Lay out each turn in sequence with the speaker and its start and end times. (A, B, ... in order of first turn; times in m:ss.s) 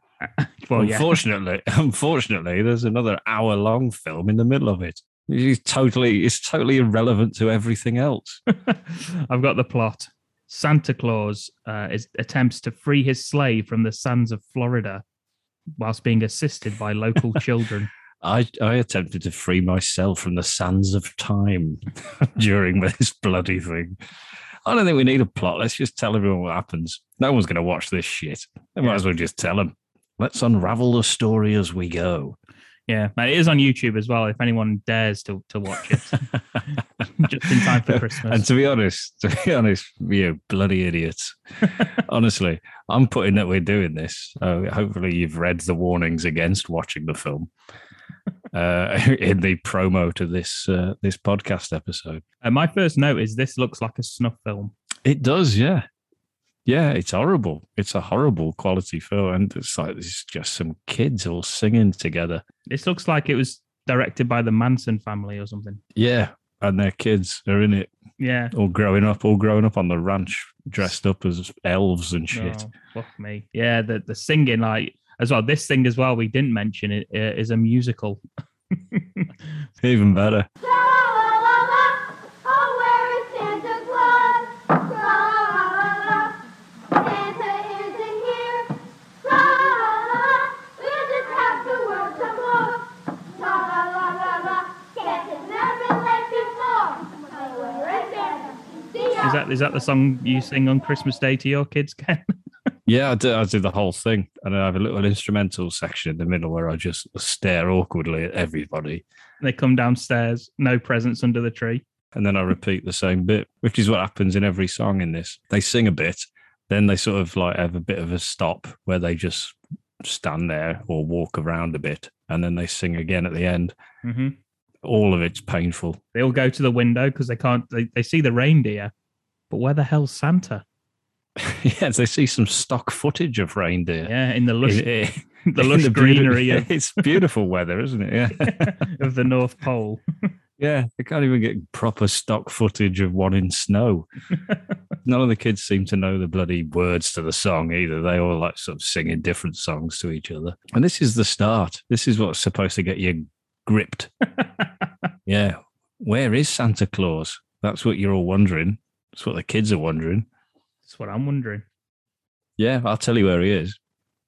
0:00.4-0:01.2 A
0:00.8-0:08.4 B
0:08.5-0:15.0 A
0:15.8-0:17.9 A
0:18.2-0:21.8 B
0:22.4-0:24.0 B
0:24.6-0:32.4 B
0:32.9-0:36.2 A
0:37.2-0:38.4 A
0:37.5-0:47.5 B
0:48.5-0:52.2 B
0:52.4-0:54.7 A
0:55.0-0:55.8 B
0:56.6-1:02.4 B
1:02.7-1:05.8 A
1:06.0-1:07.9 B
1:08.2-1:08.5 A
1:08.5-1:12.6 B
1:12.3-1:18.2 A
1:18.8-1:19.3 A
1:19.8-1:20.5 B
1:20.6-1:26.4 C
1:26.9-1:39.4 C
1:39.2-1:42.2 A
1:42.9-1:49.0 B
1:49.4-1:51.8 A
1:52.1-2:03.7 B
2:04.0-2:04.4 A
2:04.8-2:06.0 B
2:06.1-2:08.9 A
2:09.5-2:10.6 A
2:11.4-2:14.1 B
2:14.0-2:14.9 A
2:14.6-2:18.8 B
2:15.5-2:16.7 A
2:18.4-2:20.0 A
2:20.6-2:24.1 B
2:25.0-2:34.1 B
2:35.2-2:40.2 B
2:40.8-2:41.6 A
2:42.6-2:43.8 B